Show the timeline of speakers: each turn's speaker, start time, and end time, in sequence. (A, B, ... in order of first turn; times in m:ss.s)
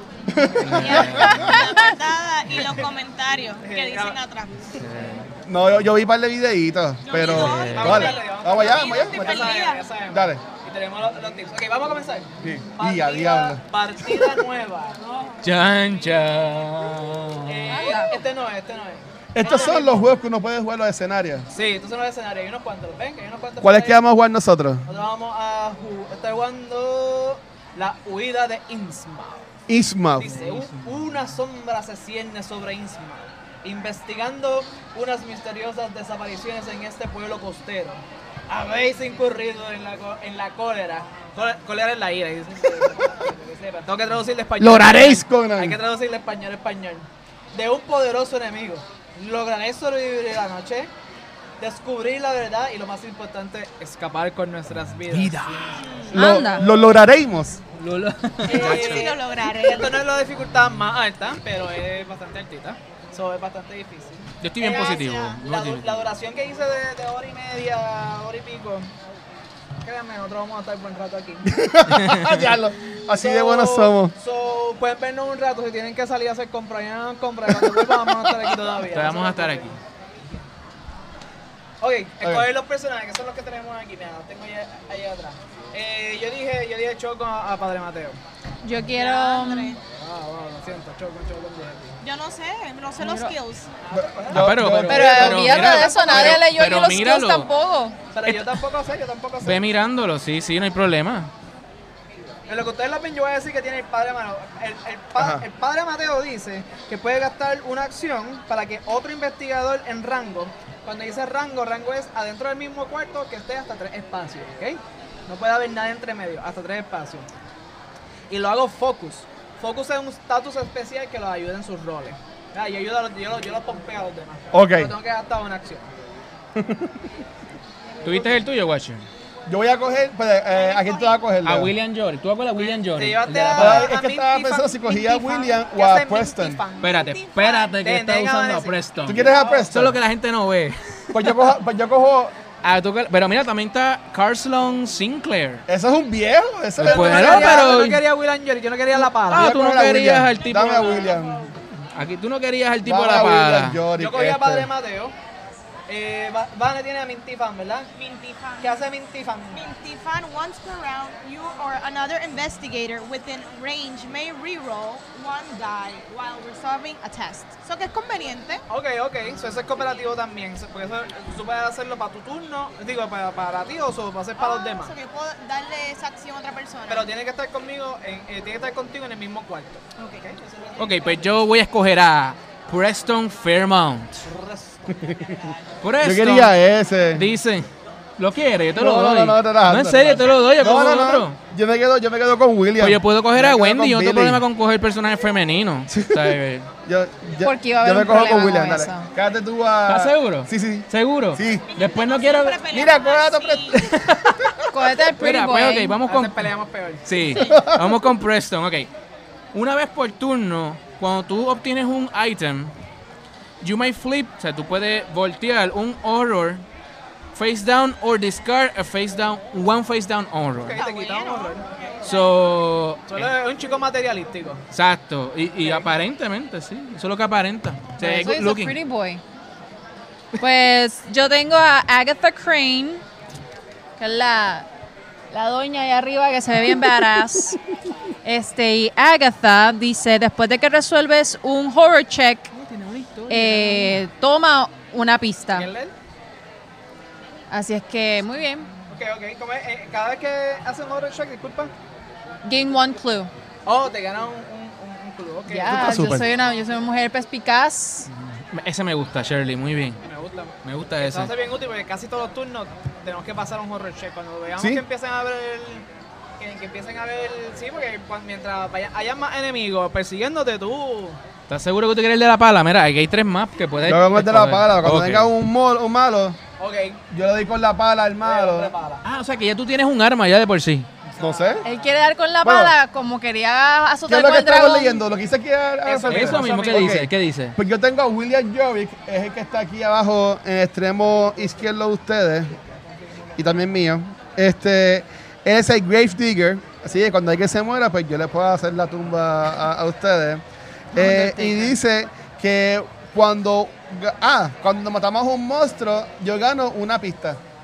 0:00.3-0:01.6 A
0:00.6-0:01.6 B
0:00.8-0:04.7 C
0:01.6-0:01.8 D
0:02.5-0:02.8 E
0:03.6-0:04.2 E
0:04.8-0:05.3 B
0:05.5-0:10.4 A
0:07.0-0:09.8 C
0:07.2-0:15.0 E
0:07.2-0:08.1 B
0:12.4-0:14.4 A
0:15.4-0:17.7 B
0:17.4-0:20.2 E
0:17.7-0:18.2 D
0:19.3-0:21.5 A
0:21.5-0:24.0 E
0:23.6-0:24.9 A
0:24.9-0:29.5 E
0:29.7-0:30.3 A
0:30.2-0:50.9 E
0:30.3-0:31.2 B
0:44.6-0:45.8 A
0:51.6-0:55.4 E
0:55.1-0:55.8 B
0:55.9-0:56.2 C
0:56.1-0:57.6 A
0:56.1-0:56.6 D
0:57.8-0:59.1 B
0:58.4-1:08.9 E
0:58.4-1:00.0 C
1:04.4-1:06.1 B
1:09.8-1:11.5 E
1:11.4-1:14.1 A
1:11.9-1:12.5 B
1:13.2-1:19.7 E
1:17.5-1:18.3 A
1:18.9-1:19.8 B
1:21.8-1:28.2 E
1:28.6-1:29.8 D
1:28.9-1:29.8 C
1:29.9-1:32.0 E
1:32.0-1:33.7 C
1:33.0-1:33.4 D
1:33.8-1:36.4 E
1:33.9-1:35.6 A
1:34.3-1:37.5 B
1:34.8-1:38.0 D
1:38.1-1:39.6 E
1:38.3-1:38.6 B
1:39.4-1:41.3 B
1:42.5-1:57.3 E
1:45.2-1:45.4 A
1:58.3-2:05.9 E
2:04.5-2:04.9 A
2:06.6-2:07.0 A
2:08.0-2:09.1 B
2:09.5-2:11.7 A
2:10.5-2:11.2 C
2:11.4-2:13.9 B
2:12.6-2:17.0 E
2:13.6-2:16.6 A
2:16.8-2:21.4 B
2:16.8-2:17.8 C
2:17.8-2:19.7 E
2:19.0-2:20.0 A
2:21.1-2:22.4 A
2:22.6-2:25.6 B
2:25.7-2:27.8 A
2:26.8-2:29.5 E
2:26.8-2:28.0 B
2:29.0-2:31.1 B
2:29.3-2:31.5 A
2:30.8-2:31.2 C
2:31.9-2:33.8 B
2:32.8-2:34.7 A
2:34.0-2:35.2 E
2:35.9-2:37.9 E
2:38.0-2:38.8 C
2:38.6-2:39.6 E
2:39.5-2:48.6 C
2:48.7-2:55.0 E
2:54.4-2:57.1 C
2:56.9-3:01.4 E
3:00.0-3:00.3 C
3:00.8-3:04.3 B
3:04.2-3:05.0 E
3:04.9-3:05.4 A
3:05.8-3:06.5 B
3:06.0-3:07.3 A
3:07.1-3:07.7 B
3:08.2-3:11.4 B
3:08.8-3:14.4 A
3:12.8-3:16.7 B
3:15.9-3:21.6 A
3:17.4-3:19.1 D
3:19.9-3:22.6 B
3:21.7-3:23.8 C
3:22.7-3:24.5 A
3:23.9-3:24.4 B
3:24.7-3:26.0 D
3:25.2-3:26.5 B
3:26.0-3:27.0 E
3:27.0-3:28.9 B
3:27.4-3:28.0 A
3:29.5-3:32.7 B
3:33.6-3:36.6 B
3:37.4-3:40.8 B
3:40.6-3:41.6 E
3:40.8-3:42.4 C
3:42.0-3:43.3 B
3:43.1-3:44.6 E
3:44.7-3:48.8 B
3:45.6-3:45.9 E
3:48.0-3:49.2 D
3:50.4-3:53.0 D
3:54.0-3:54.7 D
3:55.3-3:57.6 D
3:58.2-4:02.5 D
4:02.5-4:04.0 B
4:03.3-4:05.7 D
4:05.5-4:05.9 E
4:07.5-4:08.7 D
4:08.9-4:11.7 E
4:12.4-4:13.3 D
4:13.7-4:16.0 E
4:15.5-4:18.1 D
4:15.7-4:16.3 A
4:18.1-4:20.0 B
4:20.0-4:25.9 E
4:20.6-4:21.3 B
4:24.6-4:24.8 A
4:26.4-4:31.2 E
4:31.5-4:35.3 B
4:33.8-4:36.4 A
4:36.6-4:37.0 E
4:37.1-4:38.7 A
4:38.2-4:39.0 E
4:39.0-4:40.9 B
4:41.2-4:41.8 E
4:41.2-4:41.6 A
4:41.6-4:45.0 D
4:42.4-4:42.7 A
4:44.1-4:52.6 A
4:45.8-4:47.0 E
4:46.1-4:47.6 B
4:53.4-5:00.4 A
5:00.9-5:01.8 D
5:00.9-5:07.4 A